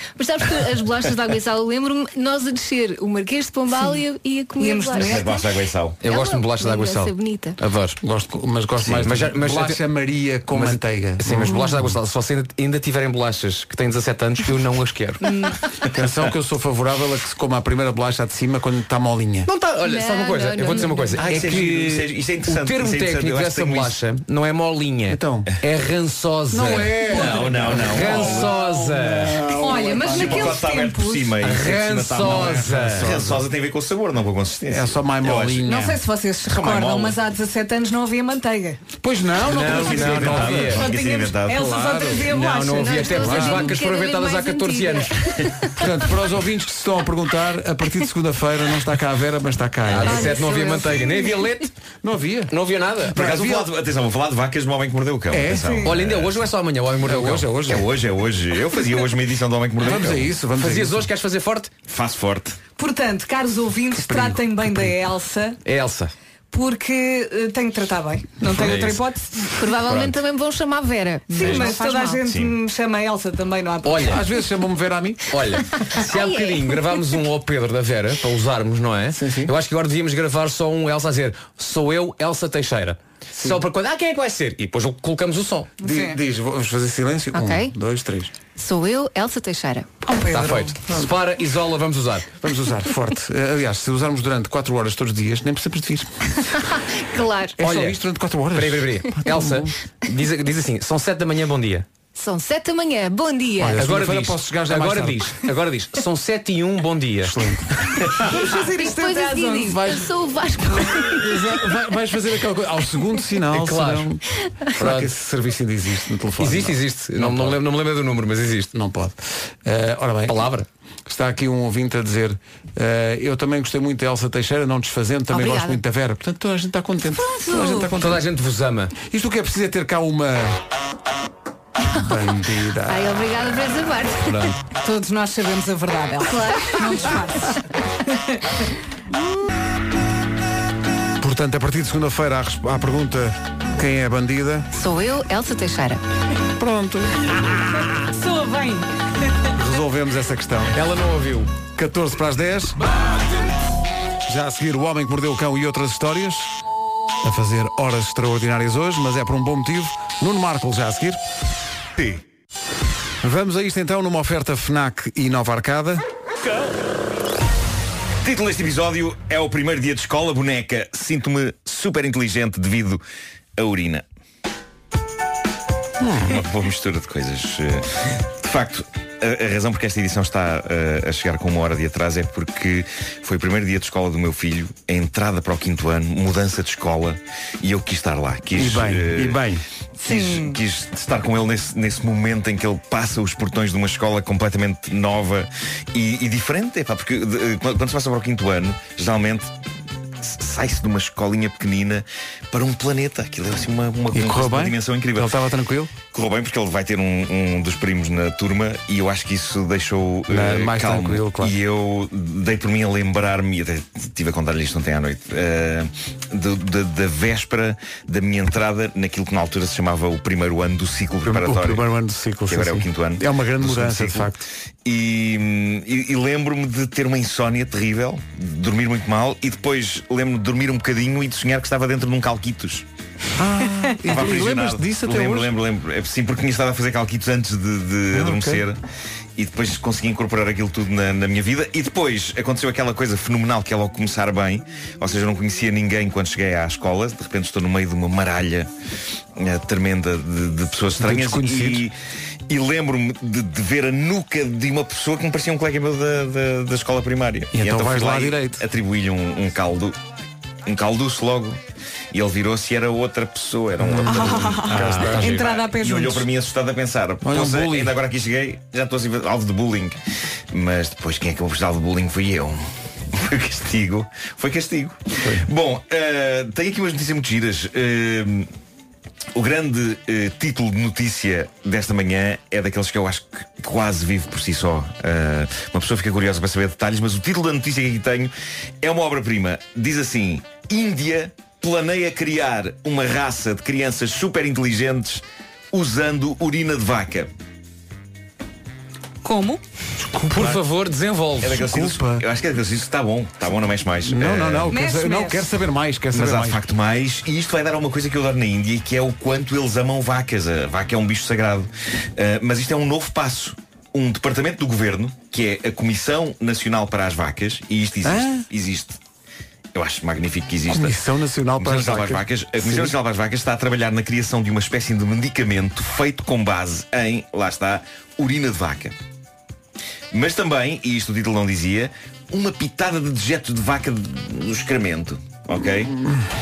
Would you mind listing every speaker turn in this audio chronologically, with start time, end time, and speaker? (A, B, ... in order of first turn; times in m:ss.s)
0:00.2-0:05.4 A
0:04.6-0:05.3 B
0:05.0-0:06.0 C
0:06.0-0:08.0 D
0:06.0-0:07.6 A
0:08.0-0:12.0 E
0:08.9-0:09.8 D
0:10.5-0:15.3 D
0:15.2-0:15.5 B
0:15.9-0:19.5 E
0:19.5-0:29.4 D
0:19.8-0:21.3 A
0:21.2-0:24.0 C
0:25.1-0:25.5 E
0:26.5-0:29.0 E
0:27.1-0:27.5 B
0:27.1-0:28.5 C
0:29.5-0:31.4 B
0:30.0-0:35.7 C
0:31.4-0:33.1 D
0:32.2-0:33.5 E
0:34.7-0:36.0 E
0:35.6-0:38.8 B
0:36.5-0:37.2 C
0:39.0-0:40.9 E
0:39.4-0:40.9 D
0:39.5-0:41.7 C
0:40.7-0:43.3 B
0:41.5-0:42.3 E
0:42.3-0:45.2 D
0:42.8-0:45.5 A
0:43.2-0:43.8 E
0:45.8-0:50.3 E
0:49.9-0:51.7 D
0:50.0-0:51.5 A
0:52.0-0:52.5 E
0:52.5-0:53.2 D
0:53.1-0:53.7 E
0:53.1-0:56.4 C
0:55.3-0:55.9 E
0:55.5-0:55.9 B
0:55.8-0:57.5 D
0:57.0-0:57.9 E
0:57.6-1:00.3 C
0:59.8-1:01.1 E
1:00.6-1:01.7 D
1:01.9-1:02.6 C
1:02.8-1:05.6 B
1:03.9-1:05.0 E
1:05.6-1:06.1 D
1:06.5-1:09.4 B
1:08.5-1:09.0 D
1:09.5-1:12.2 A
1:11.3-1:14.2 B
1:11.4-1:11.7 C
1:12.2-1:12.6 C
1:13.8-1:14.2 D
1:14.1-1:15.3 E
1:15.3-1:25.7 D
1:16.0-1:16.8 A
1:19.1-1:19.5 E
1:23.4-1:23.6 E
1:25.8-1:26.2 B
1:25.8-1:28.3 E
1:27.3-1:27.7 A
1:28.6-1:30.0 A
1:30.0-1:30.7 B
1:30.3-1:32.3 D
1:30.9-1:31.2 E
1:32.4-1:36.3 E
1:37.0-1:37.6 A
1:37.6-1:39.7 E
1:37.6-1:38.0 D
1:38.5-1:41.9 D
1:42.2-1:43.8 A
1:43.6-1:45.3 E
1:43.8-1:47.4 D
1:47.2-1:48.1 E
1:48.2-1:49.8 B
1:48.7-1:51.3 A
1:51.0-1:57.6 E
1:53.5-1:54.1 D
1:54.8-1:55.1 D
1:56.4-1:58.7 D
1:58.7-2:00.5 E
2:00.3-2:00.7 D
2:01.1-2:08.2 E
2:05.3-2:05.8 A
2:07.2-2:07.9 B
2:08.0-2:08.9 D
2:09.0-2:10.6 E
2:11.9-2:13.2 E
2:12.9-2:14.5 A
2:14.2-2:14.6 E
2:14.8-2:18.4 B
2:16.2-2:17.2 A
2:21.2-2:24.7 E
2:24.7-2:26.0 A
2:26.6-2:27.9 E
2:27.8-2:28.9 B
2:29.6-2:30.8 E
2:30.7-2:31.5 D
2:31.8-2:32.8 E
2:34.3-2:36.5 E
2:37.2-2:41.2 E
2:43.2-2:46.0 E
2:48.2-2:53.0 C
2:53.6-2:54.0 C
2:56.0-2:56.4 E
2:56.2-3:09.4 C
3:08.6-3:09.6 E
3:10.0-3:10.6 B
3:10.0-3:19.5 C
3:20.2-3:25.3 C
3:24.1-3:25.9 E
3:26.1-3:41.9 C
3:30.3-3:31.6 E
3:41.2-3:44.4 E
3:42.5-3:44.3 C
3:44.8-3:52.8 C
3:53.4-3:55.6 E
3:54.0-3:58.8 C
3:58.1-3:58.6 E
3:59.4-4:08.7 C
4:09.4-4:12.0 C
4:11.0-4:11.9 E
4:12.5-4:20.0 C
4:17.5-4:18.6 E
4:20.7-4:21.6 C
4:22.1-4:24.6 C
4:23.8-4:25.3 E
4:24.1-4:26.2 B
4:24.7-4:25.6 D
4:25.3-4:30.0 C
4:27.2-4:28.0 E
4:30.5-4:32.6 C
4:33.2-4:38.5 C
4:35.2-4:35.5 E
4:39.4-4:57.3 C
4:59.2-4:59.6 B
5:00.0-5:00.6 E
5:00.3-5:01.6 D
5:01.4-5:04.7 C
5:01.4-5:02.2 E
5:04.0-5:06.6 E
5:04.7-5:05.4 B
5:06.1-5:19.0 C
5:18.0-5:18.5 E
5:19.7-5:21.0 C
5:20.7-5:23.0 E
5:21.6-5:29.0 C
5:30.1-5:36.0 C